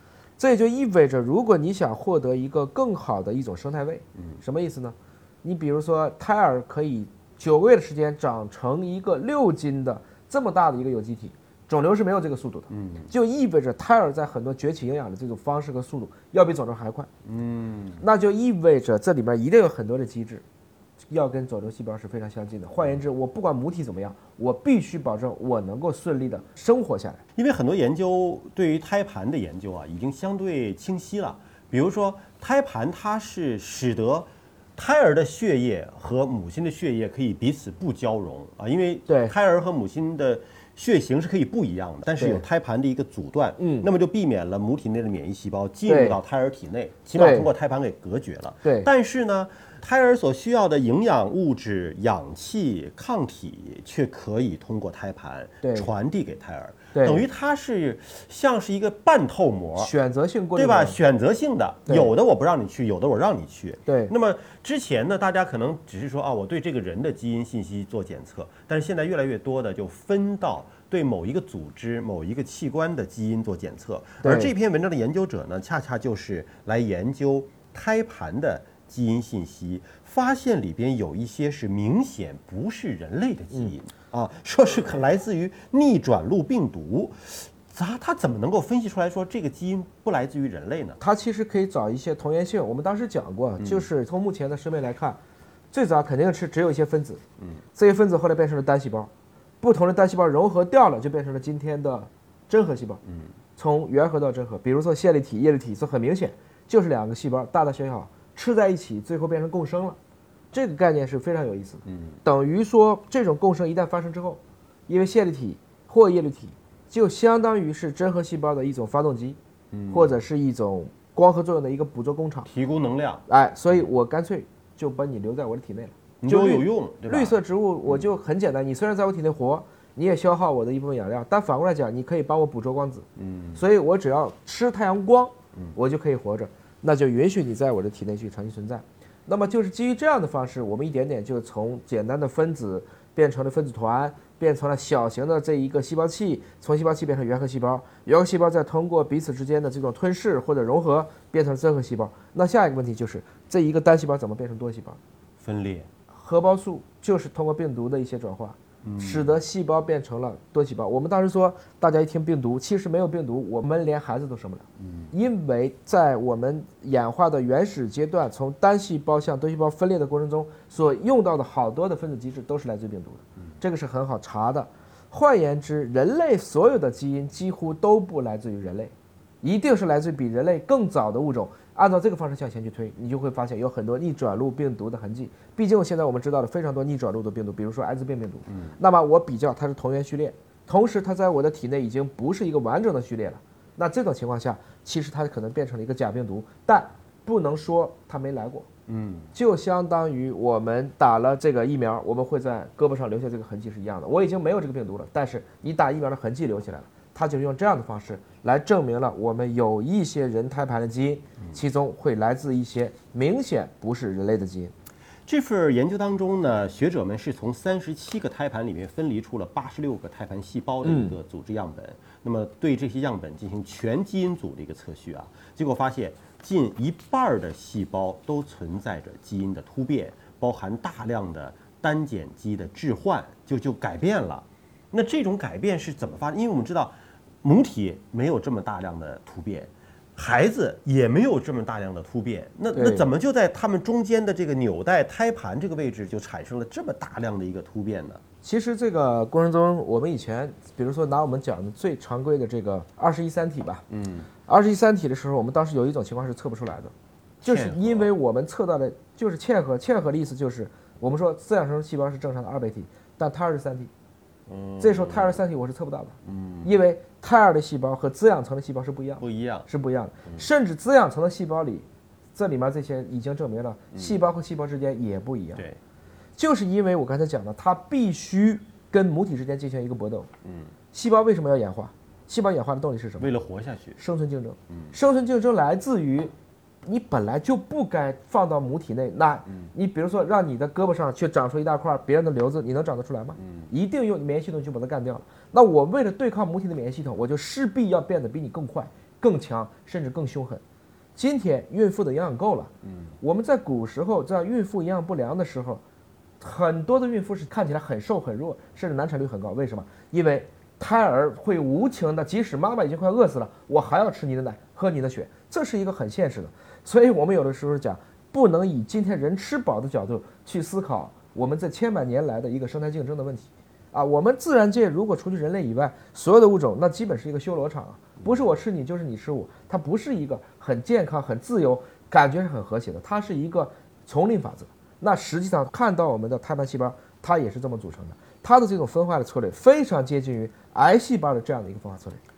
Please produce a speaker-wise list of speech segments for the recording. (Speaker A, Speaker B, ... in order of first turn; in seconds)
Speaker A: 0.4-17.1, 18.0-20.4, 21.1-27.2, 39.1-39.3, 42.2-42.4, 43.6-43.9, 45.9-46.2, 47.1-47.5, 48.6-48.9, 55.6-55.9, 56.9-57.2, 59.8-61.0, 63.9-64.1, 74.2-74.5, 91.0-95.2, 95.7-97.2, 97.7-103.0, 103.5-110.0, 110.5-119.4, 119.9-122.5, 123.3-155.0, 156.1-198.7, 199.3-214.7, 220.8-221.2, 242.7-243.1, 248.4-253.8, 254.5-256.9, 257.4-263.9, 264.8-275.6, 276.4-280.3, 280.9-283.3, 284.0-286.3, 286.8-300.6, 301.1-305.8, 306.4-342.2
Speaker B: 12.7-13.1, 17.2-18.0, 27.4-59.9, 60.5-91.0, 93.6-93.8, 111.9-112.2, 119.7-120.2, 122.5-123.2, 126.2-127.4, 133.2-133.6, 155.4-155.9, 158.8-159.3, 188.5-188.8, 198.9-199.3, 215.2-248.2, 253.9-254.3, 257.4-258.1, 264.5-265.4, 266.2-266.7, 269.2-269.7, 280.4-280.7, 283.2-284.0, 284.7-284.9, 293.4-293.7, 302.9-303.1